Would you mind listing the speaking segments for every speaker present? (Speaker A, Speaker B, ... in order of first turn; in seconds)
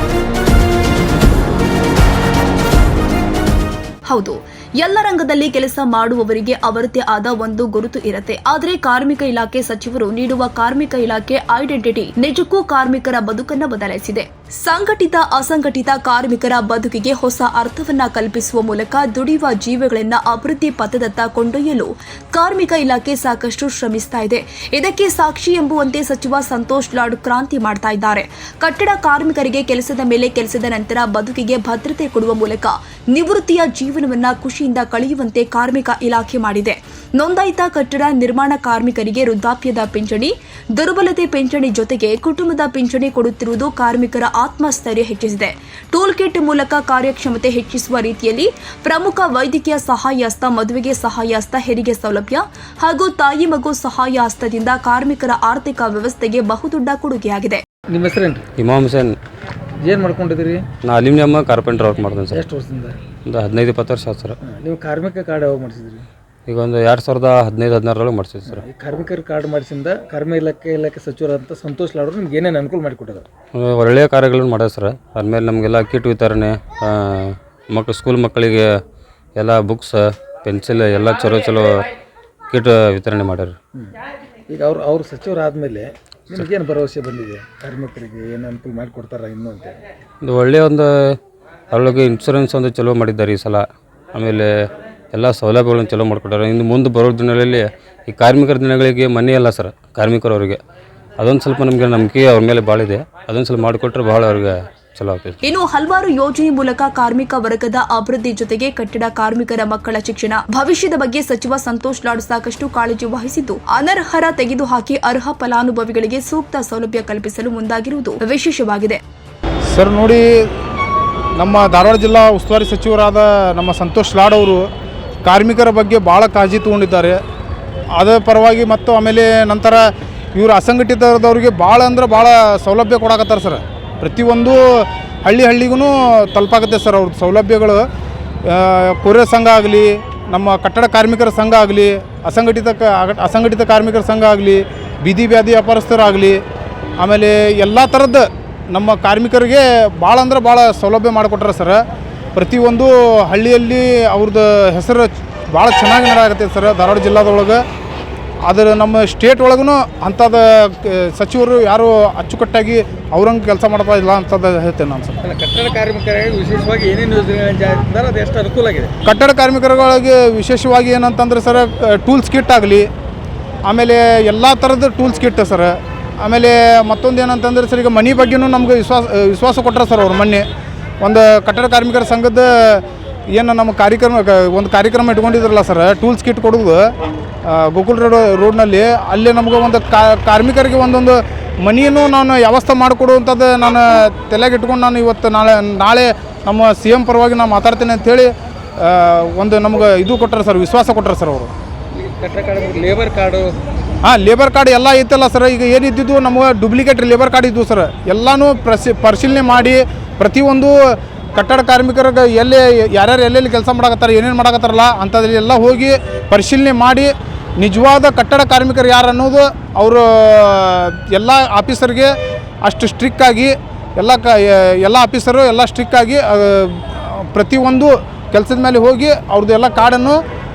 Speaker A: 4.1-57.6, 105.4-119.0
Speaker B: 57.9-58.5, 59.8-60.7, 62.3-63.0, 64.4-66.1, 68.5-73.3, 84.5-89.8, 165.2-168.9, 201.9-203.6
Speaker C: 58.6-59.1, 60.8-62.4, 63.3-64.4, 66.5-68.7, 73.5-78.7, 79.4-81.7, 82.5-83.5, 90.2-91.2, 91.7-94.5, 95.1-100.6, 101.2-105.4
Speaker D: 119.7-120.5, 121.3-124.7, 125.2-127.2, 127.9-137.8, 138.4-146.4, 147.0-151.8, 152.3-157.6, 158.4-165.2, 169.0-172.9, 173.7-180.4, 181.0-186.8, 187.4-201.5, 204.0-230.2